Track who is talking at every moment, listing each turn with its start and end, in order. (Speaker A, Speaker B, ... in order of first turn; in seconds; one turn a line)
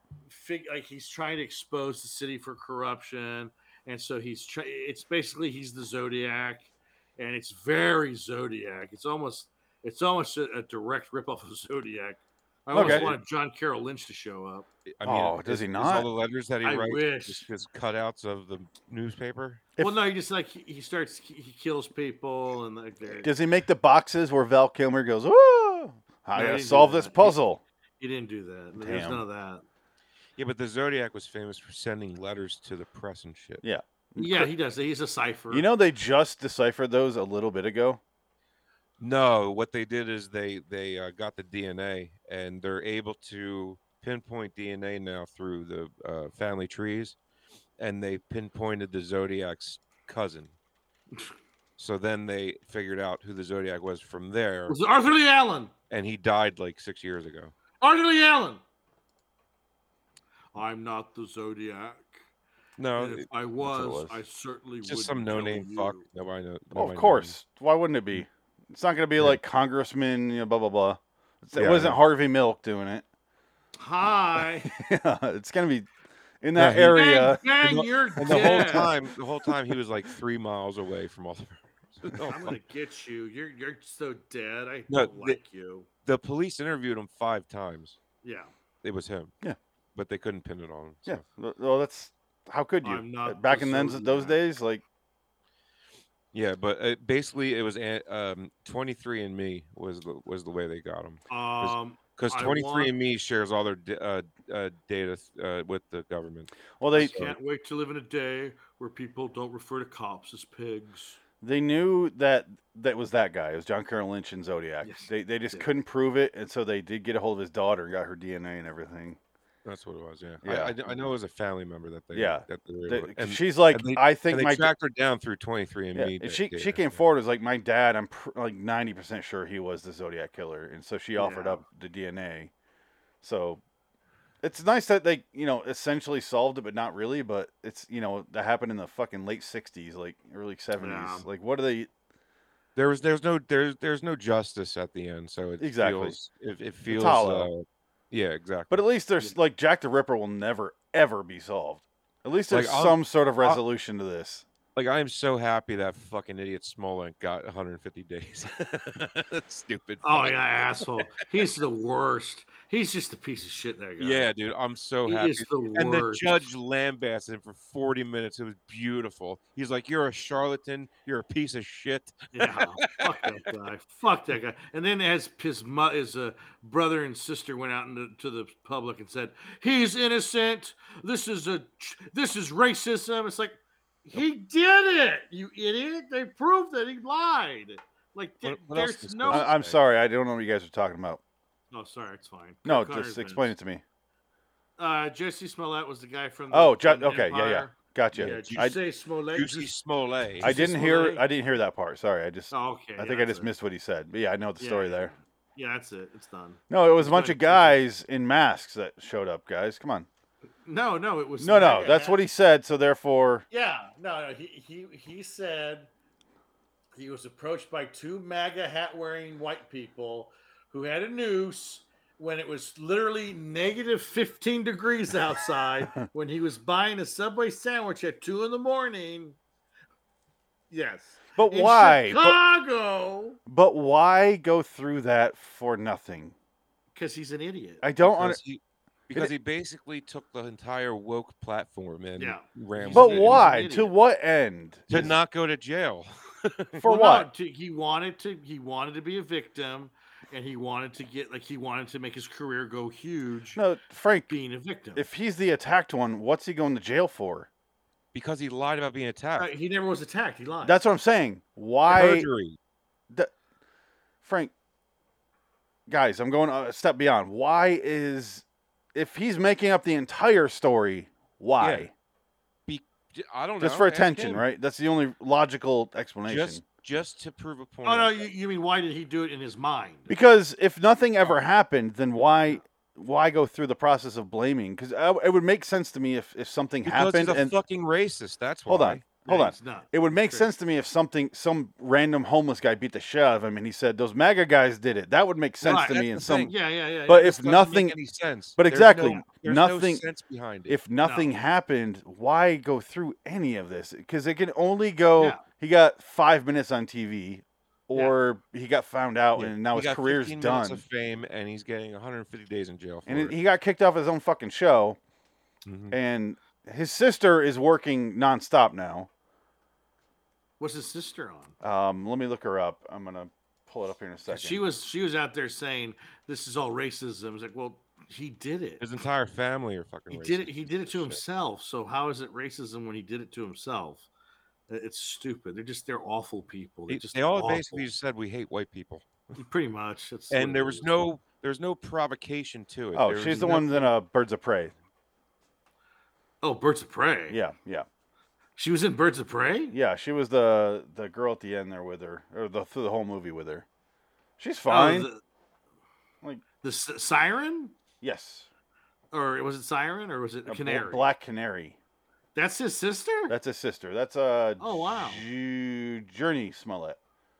Speaker A: 0.3-14.7
Speaker B: 12.7-13.1
Speaker C: 12.7-13.2
Speaker C: 14.9-19.6
Speaker B: 15.0-16.1
Speaker A: 16.6-17.5
Speaker A: 19.8-23.3
Speaker B: 23.0-27.6
Speaker A: 26.3-27.4
Speaker A: 28.0-29.6
Speaker B: 28.8-29.2
Speaker C: 30.4-33.6
Speaker B: 33.6-34.5
Speaker A: 34.2-35.7
Speaker B: 35.5-38.0
Speaker C: 39.0-47.2
Speaker C: 47.8-50.5
Speaker C: 51.8-54.8
Speaker A: 54.7-55.7
Speaker C: 55.9-57.5
Speaker A: 57.8-58.6
Speaker A: 60.5-62.2
Speaker C: 62.8-64.1
Speaker A: 63.0-66.0
Speaker C: 64.8-67.4
Speaker B: 66.7-73.0
Speaker C: 71.6-72.0
Speaker A: 73.8-74.7
Speaker B: 74.6-75.9
Speaker B: 76.4-77.4
Speaker C: 76.6-82.6
Speaker A: 76.9-78.9
Speaker B: 78.2-79.0
Speaker A: 82.3-85.9
Speaker C: 84.9-85.4
Speaker C: 86.0-88.0
Speaker A: 88.2-88.5
Speaker C: 88.8-89.3
Speaker C: 90.0-91.2
Speaker B: 91.1-94.8
Speaker A: 92.8-94.4
Speaker C: 96.3-107.3
Speaker A: 101.3-102.9
Speaker B: 106.8-107.3
Speaker A: 106.9-111.2
Speaker B: 111.4-119.2
Speaker A: 114.8-115.7
Speaker C: 119.7-127.0
Speaker B: 120.4-120.8
Speaker B: 122.1-124.7
Speaker B: 126.0-132.5
Speaker A: 131.2-131.6
Speaker B: 133.2-133.6
Speaker B: 134.4-141.9
Speaker A: 140.8-141.3
Speaker C: 142.8-148.8
Speaker B: 145.6-146.2
Speaker B: 146.9-147.5
Speaker B: 148.7-154.5
Speaker C: 152.5-153.6
Speaker C: 154.8-161.3
Speaker A: 160.0-164.3
Speaker C: 164.0-173.0
Speaker A: 165.1-166.4
Speaker A: 172.3-189.5
Speaker C: 188.4-189.8
Speaker B: 189.3-191.2
Speaker A: 191.7-193.6
Speaker B: 192.7-193.8
Speaker A: 194.8-199.7
Speaker B: 196.5-198.8
Speaker C: 198.1-198.8
Speaker C: 199.3-200.6
Speaker A: 200.4-201.2
Speaker B: 200.4-205.1
Speaker A: 202.5-203.5
Speaker A: 204.6-207.8
Speaker B: 206.7-210.1
Speaker A: 210.7-212.2
Speaker B: 211.4-213.4
Speaker A: 213.5-215.9
Speaker A: 216.9-229.4
Speaker A: 230.7-233.4
Speaker B: 231.4-232.4
Speaker B: 233.5-236.3
Speaker A: 236.9-237.8
Speaker B: 237.8-238.4
Speaker C: 238.0-243.5
Speaker A: 242.2-243.9
Speaker B: 242.9-245.2
Speaker C: 244.9-246.8
Speaker B: 246.8-247.3
Speaker A: 246.8-253.6
Speaker B: 253.6-254.3
Speaker A: 254.3-255.1
Speaker B: 254.9-257.5
Speaker C: 258.1-259.5
Speaker A: 259.4-260.8
Speaker B: 260.6-262.3
Speaker C: 261.9-262.6
Speaker B: 264.2-264.5
Speaker B: 265.9-271.9
Speaker C: 271.6-271.9
Speaker C: 272.7-274.4
Speaker B: 273.6-276.6
Speaker C: 276.3-278.3
Speaker A: 277.8-280.1
Speaker B: 280.1-287.6
Speaker C: 286.9-289.0
Speaker B: 288.7-296.5
Speaker A: 289.2-290.5
Speaker A: 295.6-297.6
Speaker C: 296.0-296.5
Speaker B: 297.1-297.9
Speaker C: 297.2-300.8
Speaker B: 298.6-300.1
Speaker B: 300.7-310.8
Speaker A: 301.0-301.3
Speaker A: 305.2-305.4
Speaker C: 309.4-313.4
Speaker B: 313.1-315.0
Speaker C: 315.7-316.0
Speaker B: 315.9-319.1
Speaker A: 320.6-321.6
Speaker B: 321.6-324.6
Speaker A: 324.3-328.8
Speaker C: 328.8-331.2
Speaker A: 330.1-334.1
Speaker A: 334.7-337.9
Speaker C: 336.9-339.4
Speaker A: 339.4-341.1
Speaker C: 340.3-343.9
Speaker B: 342.9-344.7
Speaker A: 343.4-343.7
Speaker A: 346.4-347.4
Speaker B: 347.3-347.9
Speaker A: 348.6-349.8
Speaker B: 349.7-353.7
Speaker B: 354.4-355.1
Speaker A: 354.7-355.2
Speaker A: 356.6-357.7
Speaker B: 358.0-358.5
Speaker A: 359.1-361.1
Speaker B: 360.5-361.8
Speaker A: 362.4-363.4
Speaker B: 363.3-367.0
Speaker A: 364.6-365.2